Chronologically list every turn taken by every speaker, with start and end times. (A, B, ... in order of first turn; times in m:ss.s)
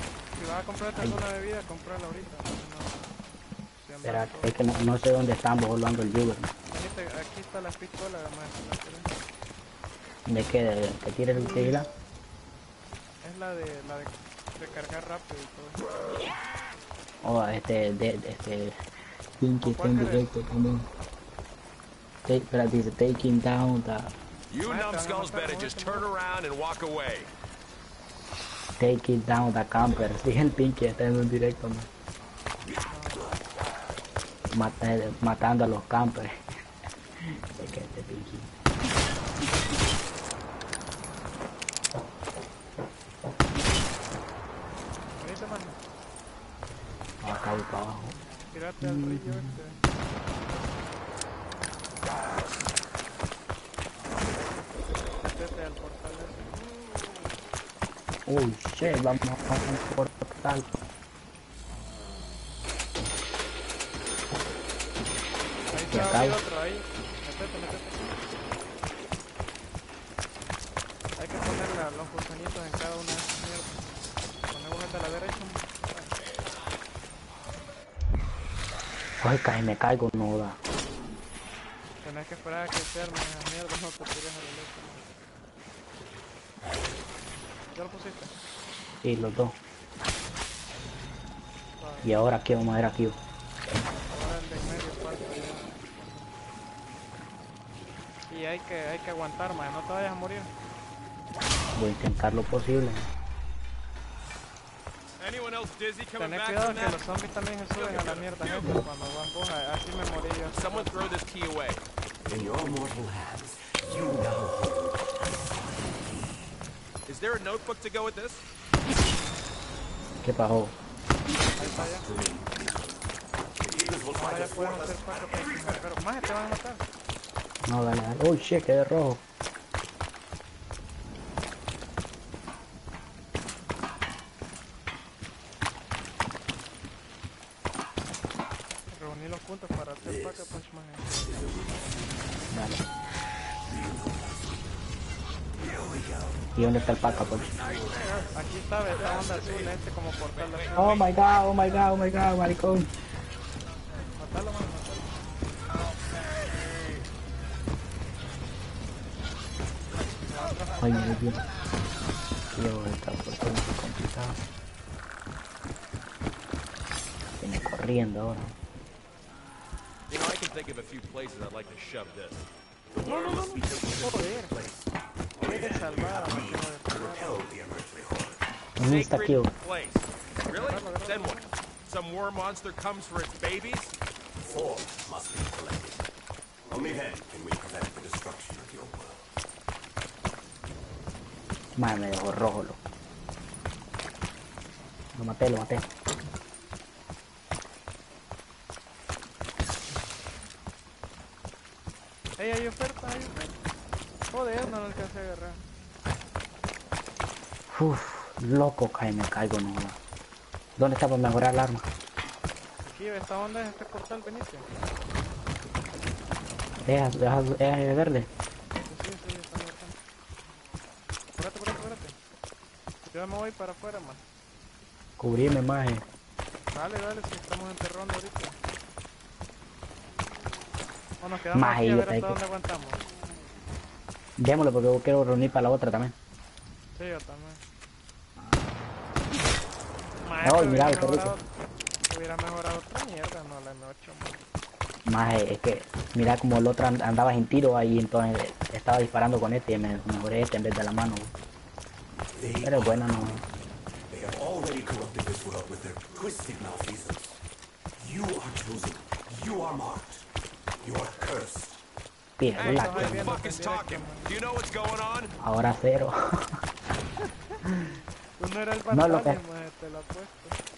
0:00.4-0:03.1 A
0:00.9-0:01.2 B
0:03.7-0:04.6 A
0:04.0-0:06.5 B
0:06.7-0:09.1 A
0:10.2-0:11.9 B
0:13.2-0:15.8 A
0:17.2-0:18.8 B
0:19.4-0:20.9 B
0:19.6-0:20.3 A
0:22.2-0:24.1 B
0:24.5-0:27.3 C
0:24.6-0:26.1 A
0:28.8-0:31.9 B
0:32.8-0:33.3 A
0:34.5-0:36.4 B
0:37.2-0:38.5 B
0:45.2-0:45.8 A
0:47.2-0:48.2 B
0:48.5-0:49.8 A
0:48.8-0:49.6 B
0:55.2-0:56.5 A
0:58.2-1:00.7 B
1:05.7-1:08.2 A
1:05.9-1:06.4 B
1:11.2-1:13.8 A
1:14.5-1:16.2 A
1:19.2-1:20.6 B
1:22.0-1:25.0 A
1:27.7-1:28.3 A
1:29.0-1:29.6 B
1:31.8-1:32.1 A
1:32.0-1:33.2 B
1:34.1-1:36.3 A
1:38.3-1:40.5 A
1:41.7-1:43.1 B
1:45.2-1:47.2 C
1:46.2-1:51.0 A
1:47.8-1:48.8 C
1:50.5-1:51.8 C
1:52.2-1:56.5 D
1:57.1-1:58.4 C
2:00.2-2:00.8 B
2:01.5-2:03.0 D
2:01.6-2:02.0 A
2:03.6-2:05.8 D
2:04.1-2:06.8 A
2:07.6-2:09.2 B
2:18.9-2:21.1 A
2:20.0-2:20.5 D
2:21.2-2:22.5 D
2:22.5-2:22.8 B
2:23.6-2:24.7 D
2:25.6-2:28.3 D
2:26.6-2:27.6 B
2:28.3-2:31.0 A
2:30.3-2:31.0 C
2:30.8-2:32.9 B
2:34.2-2:35.1 A
2:40.3-2:41.2 A
2:40.8-2:41.4 B
2:42.5-2:44.4 B
2:47.4-2:48.6 B
2:50.1-2:52.5 C
2:52.9-2:58.4 D
2:53.0-2:54.5 A
2:55.4-2:57.4 A
2:58.8-2:59.5 B
2:58.8-3:03.9 C
3:00.5-3:01.5 A
3:04.4-3:06.1 D
3:06.7-3:09.3 D
3:11.8-3:12.8 B
3:15.1-3:15.8 B
3:22.4-3:23.6 A
3:24.3-3:25.6 A
3:27.7-3:30.0 B
3:30.8-3:31.9 B
3:32.8-3:34.7 A
3:36.8-3:38.3 B
3:38.8-3:40.0 A
3:41.4-3:42.2 A
3:43.0-3:44.2 A
3:45.2-3:46.0 B
3:46.7-3:48.6 A
3:51.2-3:53.0 A
3:51.5-3:52.4 B
3:54.4-3:56.1 B
3:56.9-3:57.6 A
4:00.2-4:01.4 A
4:00.4-4:01.3 B
4:02.1-4:04.4 A
4:05.1-4:11.3 B
4:12.3-4:13.5 D
4:12.6-4:13.4 B
4:14.1-4:17.4 D
4:18.0-4:20.2 D
4:20.8-4:21.8 D
4:22.4-4:23.3 B
4:22.6-4:24.3 A
4:22.6-4:25.3 C
4:25.4-4:26.6 B
4:28.4-4:30.6 A
4:28.9-4:29.4 B